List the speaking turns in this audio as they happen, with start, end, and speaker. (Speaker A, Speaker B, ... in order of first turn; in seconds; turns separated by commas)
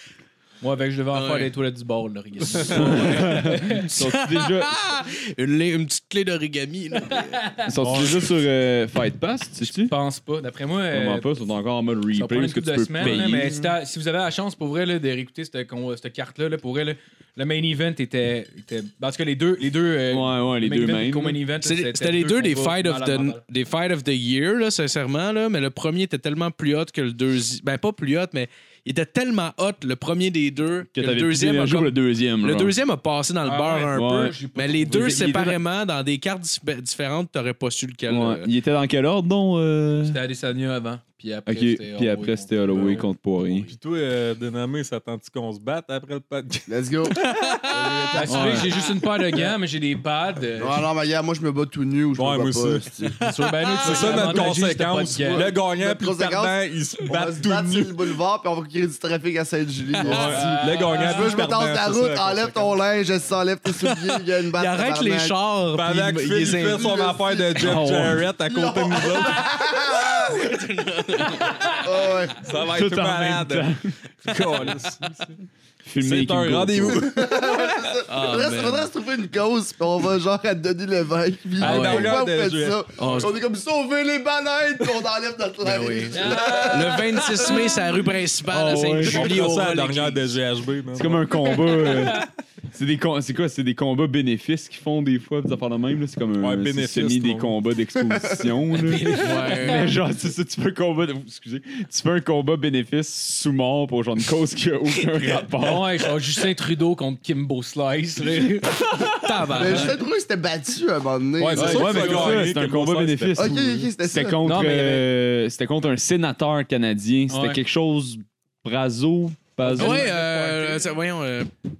Speaker A: 0.6-3.9, Speaker B: 1.1-1.5, Speaker C: 2.5-3.1, Speaker D: 2.7-4.7, Speaker B: 3.9-7.4, Speaker A: 7.1-7.7, Speaker D: 7.7-9.9, Speaker C: 7.8-8.3, Speaker A: 9.8-11.3, Speaker D: 10.9-13.7, Speaker A: 12.1-23.4, Speaker B: 13.0-13.3, Speaker D: 20.1-21.4, Speaker B: 21.6-38.5, Speaker D: 30.9-32.8, Speaker A: 33.5-35.5, Speaker D: 33.9-34.4, Speaker D: 34.9-35.5, Speaker D: 38.1-40.2, Speaker A: 40.0-43.0, Speaker D: 41.5-43.7, Speaker C: 42.7-43.1, Speaker C: 43.6-46.7, Speaker E: 46.7-48.7, Speaker B: 47.1-48.2, Speaker A: 48.1-50.9, Speaker D: 48.2-48.7, Speaker E: 50.6-53.3, Speaker C: 52.1-52.9, Speaker A: 53.2-55.5, Speaker C: 53.8-58.0, Speaker E: 53.8-54.6, Speaker E: 55.3-65.4, Speaker B: 60.0-60.6, Speaker C: 60.0-62.8, Speaker B: 63.8-66.9, Speaker C: 65.7-69.5, Speaker E: 66.6-70.6, Speaker D: 67.6-68.2, Speaker B: 69.9-71.7, Speaker E: 71.3-72.5, Speaker C: 72.4-73.7, Speaker D: 72.7-73.9, Speaker C: 74.2-75.4, Speaker D: 75.8-77.2, Speaker C: 76.0-77.1, Speaker E: 76.9-87.6, Speaker B: 78.1-78.9, Speaker C: 81.6-83.3, Speaker B: 81.6-82.1, Speaker B: 83.0-83.4, Speaker B: 85.6-90.3, Speaker A: 86.1-87.8, Speaker D: 88.5-89.5, Speaker C: 89.0-91.3, Speaker D: 90.9-106.1, Speaker A: 91.5-92.3, Speaker C: 96.4-97.5, Speaker E: 98.1-98.5, Speaker A: 98.8-99.9, Speaker B: 99.2-99.9, Speaker A: 105.6-110.0, Speaker B: 109.3-109.9, Speaker E: 109.5-112.3, Speaker C: 111.4-113.6, Speaker A: 111.5-112.5, Speaker D: 111.5-120.1, Speaker E: 113.4-114.4, Speaker A: 114.4-115.1, Speaker A: 117.3-117.6, Speaker A: 119.6-120.9, Speaker B: 119.8-121.5